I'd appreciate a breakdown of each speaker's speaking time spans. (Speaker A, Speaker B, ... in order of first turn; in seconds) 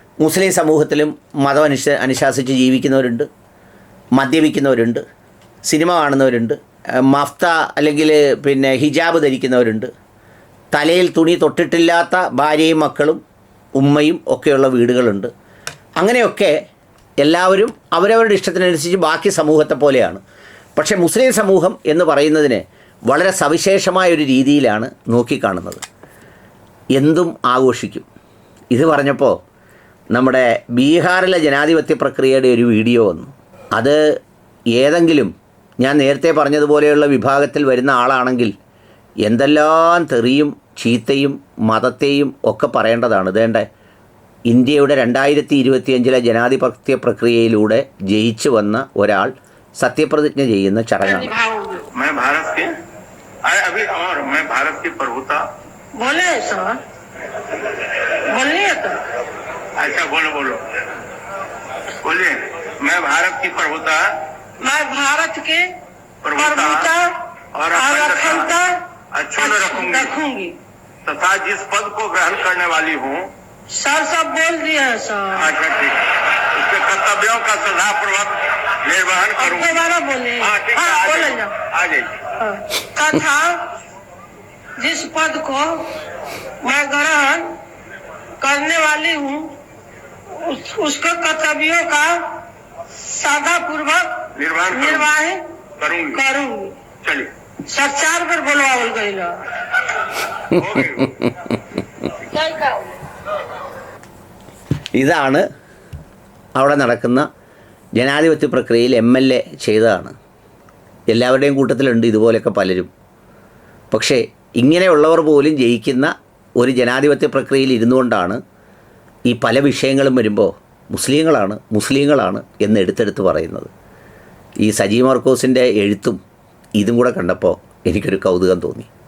Speaker A: 0.2-3.3, 4.2-5.0, 5.7-9.9, 10.7-13.2, 13.8-15.3, 16.0-16.6, 17.2-20.2, 20.8-25.8, 26.9-28.1, 28.7-29.4, 30.1-34.0, 34.7-38.5, 39.2-43.6, 44.5-51.3, 100.4-101.8, 104.9-105.4, 106.5-107.3, 108.0-110.1, 111.1-112.9, 113.9-118.4, 119.3-123.7, 124.6-126.2, 126.8-128.9
Speaker B: 51.0-51.9, 56.0-56.8, 58.3-59.0, 64.6-65.7, 66.3-67.1, 67.7-68.8, 69.4-70.6, 73.7-75.5, 79.3-81.5, 82.4-83.7, 84.8-85.9, 86.6-87.5, 88.4-89.5, 90.3-92.4, 93.0-95.4, 96.1-96.7, 97.7-99.3, 102.3-102.8
Speaker C: 51.9-52.7, 53.4-55.4, 59.8-60.6, 62.0-64.1, 66.2-66.9, 67.5-68.5, 69.1-70.1, 71.0-73.3, 75.3-79.8, 80.4-82.2, 94.3-95.1, 95.8-96.2, 97.0-97.3, 100.5-101.2